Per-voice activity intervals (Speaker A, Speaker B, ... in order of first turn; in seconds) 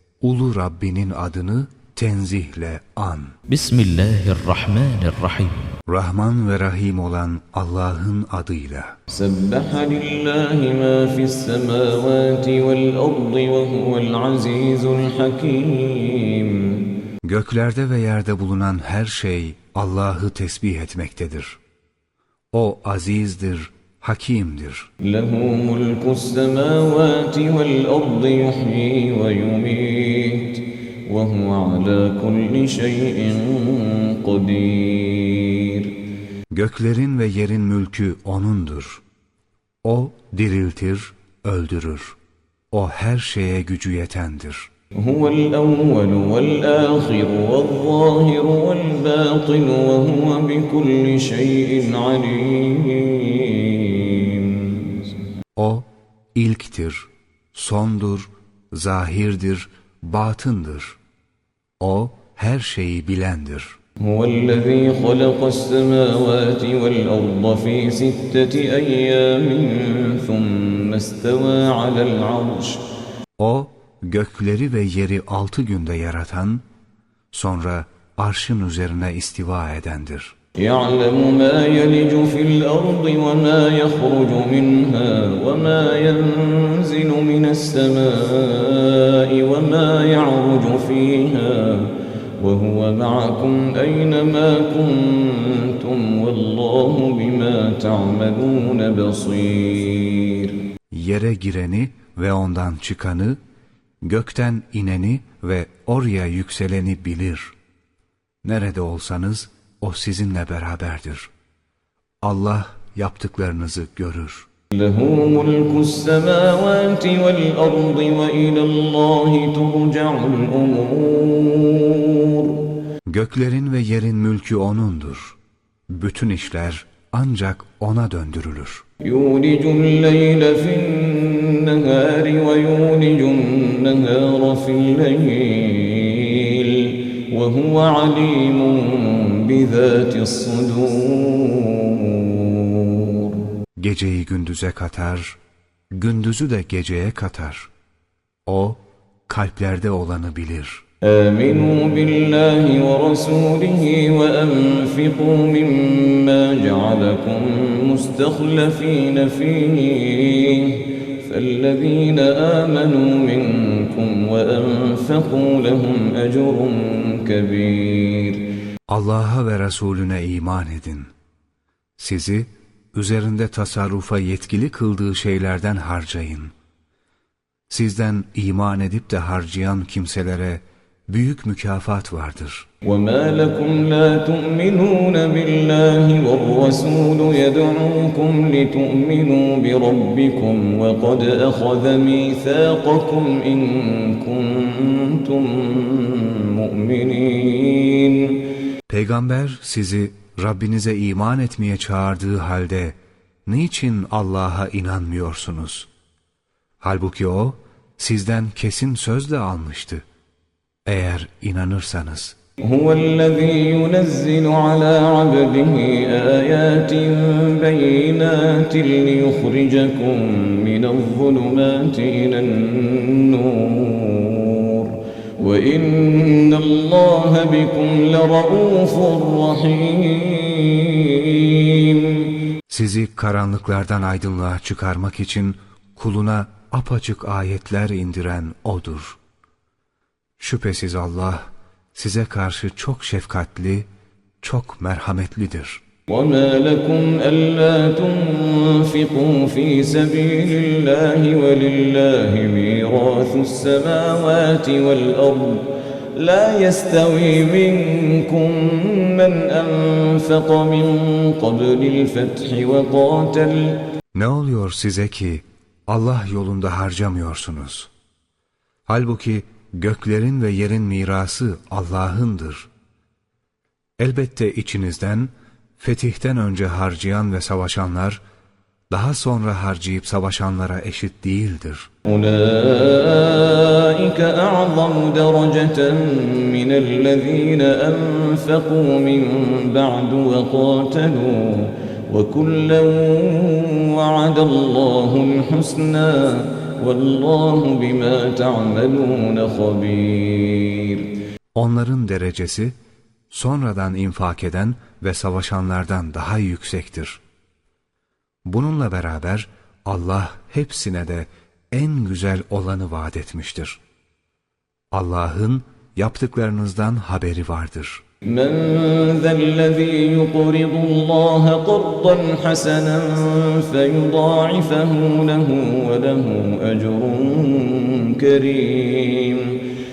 Speaker A: 0.2-3.3, 5.9-8.9, 17.2-21.6, 22.5-24.9, 36.5-39.0, 39.8-42.1, 42.7-44.7, 55.5-61.0, 61.8-63.8, 73.4-76.6, 77.3-80.3, 100.9-103.4, 104.0-107.5, 108.4-111.3, 112.2-114.5, 123.0-125.4, 125.9-128.8, 143.8-145.4, 145.9-147.7, 148.4-150.8, 168.9-171.1, 172.0-176.5, 177.7-182.7, 198.9-202.9, 203.5-205.9, 206.8-210.0, 210.8-212.3, 232.7-239.2, 240.4-243.9, 244.4-245.8, 264.1-267.9, 268.9-272.7, 274.0-278.2, 278.9-281.9, 301.5-302.8, 303.3-307.2, 308.4-313.8, 314.9-318.0
Speaker B: 3.5-5.5
Speaker C: 9.1-16.8, 25.0-35.9, 44.9-55.0, 64.0-72.8, 80.6-100.5, 114.7-122.6, 129.0-143.4, 151.0-168.4, 182.8-198.4, 212.6-232.3, 246.1-263.8, 282.1-301.1, 318.2-329.6